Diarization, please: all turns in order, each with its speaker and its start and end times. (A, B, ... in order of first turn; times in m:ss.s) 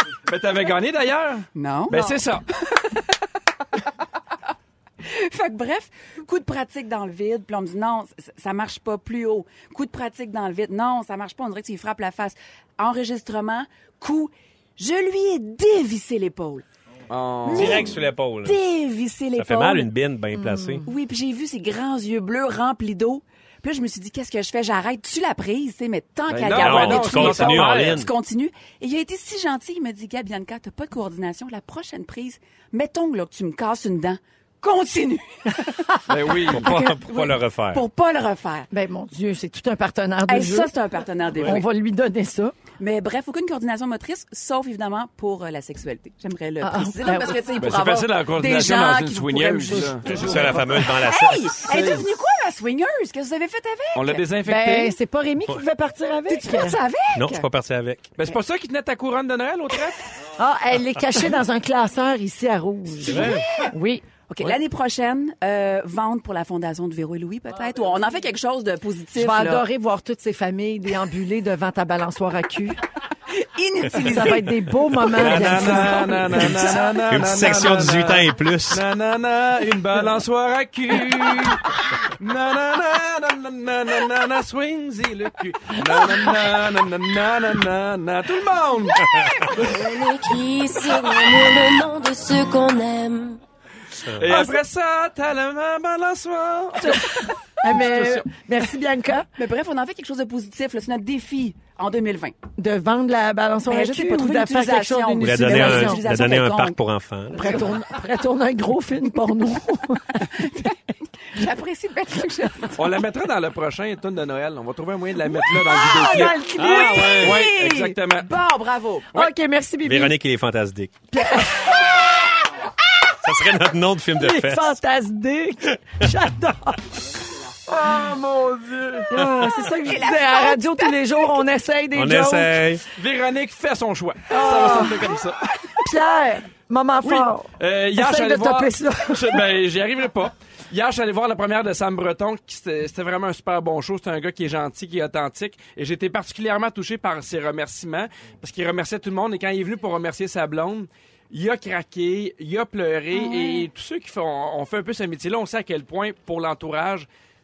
0:00.3-0:02.4 A
0:01.5-0:03.0 B
0:05.0-0:16.6 B
0:17.1-0:17.9 A
0:17.4-0:19.9 B
0:17.5-0:18.6 C
0:19.4-0:20.8 C
0:20.3-0:20.9 D
0:20.8-0:35.8 B
0:26.3-0:28.0 A
0:26.5-0:28.1 C
0:36.1-0:36.6 A
0:36.5-0:37.8 C
0:36.6-0:38.7 B
0:38.7-0:40.7 D
0:40.3-0:41.6 B
0:41.4-0:42.6 D
0:42.8-0:54.2 B
0:46.6-0:47.5 D
0:47.6-0:50.6 A
0:50.0-0:51.7 C
0:51.7-0:52.0 A
0:53.9-0:55.0 A
0:54.4-0:56.8 D
0:56.3-0:57.5 B
0:57.1-0:58.1 C
0:58.2-1:00.1 A
1:00.4-1:04.0 D
1:03.0-1:03.4 C
1:04.3-1:09.6 B
1:09.2-1:12.8 D
1:13.3-1:14.5 B
1:14.0-1:16.5 D
1:15.1-1:21.6 A
1:15.1-1:18.8 C
1:22.2-1:29.8 A
1:29.6-1:33.4 E
1:34.2-1:37.0 A
1:34.3-1:34.6 D
1:36.8-1:39.3 D
1:37.7-1:38.2 A
1:39.4-1:42.3 B
1:42.6-1:46.0 D
1:43.7-1:46.8 B
1:45.2-1:47.7 C
1:47.3-1:50.5 D
1:50.4-1:52.8 B
1:52.8-1:56.4 A
1:55.4-1:57.7 D
1:56.6-1:57.5 C
1:57.0-1:58.3 A
1:57.2-1:59.2 B
1:59.1-2:00.1 D
1:59.8-2:00.9 C
2:01.1-2:02.3 D
2:03.2-2:04.8 C
2:04.2-2:06.8 D
2:07.7-2:09.1 A
2:09.1-2:12.6 D
2:09.1-2:09.4 C
2:09.8-2:11.4 B
2:11.9-2:12.8 C
2:12.9-2:15.4 A
2:14.3-2:15.1 D
2:15.8-2:19.4 D
2:17.0-2:37.1 A
2:33.1-2:33.7 B